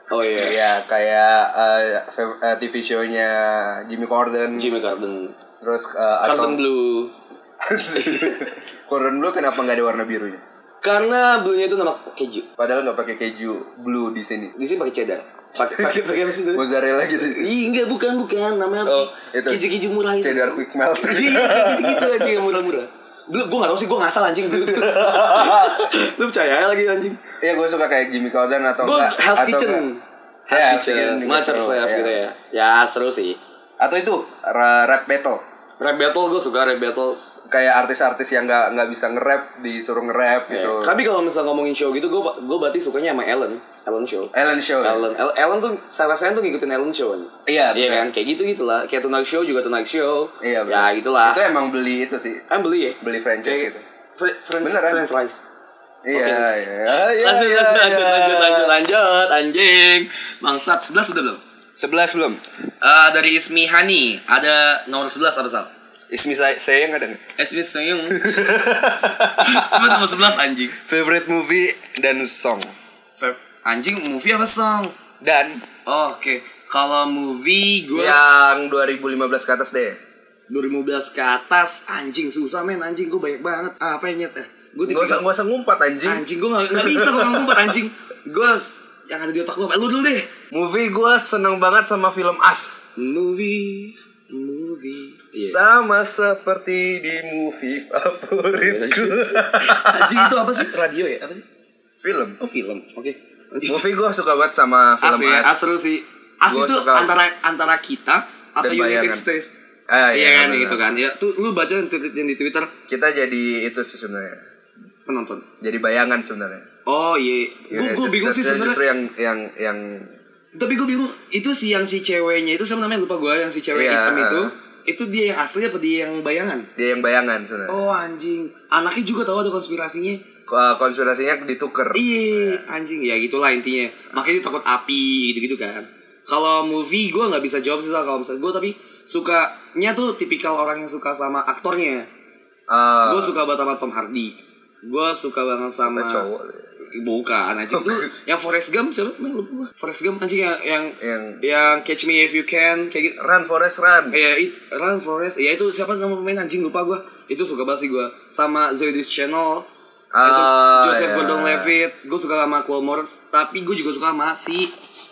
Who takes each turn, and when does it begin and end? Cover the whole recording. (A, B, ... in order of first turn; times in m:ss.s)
0:00.1-0:00.6 A
0:00.4-0:04.7 B
0:04.5-0:05.4 A
0:05.6-0:06.6 B
0:06.2-0:07.1 A
0:07.6-0:10.4 B
0:07.9-0:08.5 A
0:10.8-0:12.5 A
0:12.6-0:14.5 B
0:14.6-0:16.6 A
0:15.7-0:17.5 B
0:17.2-0:27.2 A
0:18.8-0:19.6 B
0:20.2-0:22.5 B
0:24.5-0:25.8 B
0:27.4-0:29.8 B
0:28.8-0:33.4 A
0:30.5-0:32.2 B
0:33.8-0:35.4 B
0:35.8-0:37.2 A
0:37.1-0:41.0 B
0:40.5-0:51.4 A
0:44.3-0:45.0 B
0:47.4-0:48.1 B
0:50.4-0:52.4 B
0:52.5-0:55.4 A
0:53.0-0:53.8 B
0:54.6-0:55.0 B
0:56.0-0:58.8 B
0:56.1-1:01.4 A
1:01.8-1:02.4 B
1:02.8-1:05.7 A
1:06.1-1:07.2 B
1:07.4-1:10.8 A
1:08.1-1:10.2 B
1:10.8-1:12.7 B
1:13.2-1:14.9 A
1:15.2-1:15.6 B
1:15.8-1:18.2 A
1:17.9-1:20.0 B
1:20.5-1:25.2 A
1:24.8-1:27.7 B
1:26.0-1:30.3 A
1:30.5-1:32.8 B
1:33.0-1:35.6 A
1:35.4-1:40.6 B
1:38.6-1:41.4 A
1:42.0-1:42.4 B
1:42.4-1:43.9 A
1:43.6-1:45.6 B
1:45.0-1:49.5 A
1:46.5-1:47.1 B
1:48.6-1:49.2 B
1:49.9-1:50.9 B
1:50.1-1:52.7 A
1:52.9-1:54.4 B
1:55.0-1:55.5 A
1:55.6-1:56.6 B
1:56.8-1:58.8 A
1:57.7-2:00.1 B
2:00.5-2:06.7 A
2:03.7-2:04.5 B
2:06.8-2:07.9 B
2:07.7-2:10.2 A
2:10.5-2:12.6 B
2:11.9-2:22.1 A
2:22.7-2:23.4 B
2:23.0-2:26.3 A
2:25.8-2:26.6 B
2:26.9-2:33.2 A
2:27.7-2:28.0 B
2:31.0-2:31.5 B
2:33.2-2:34.2 B
2:34.1-2:39.7 A
2:40.1-2:41.7 B
2:40.2-2:44.7 A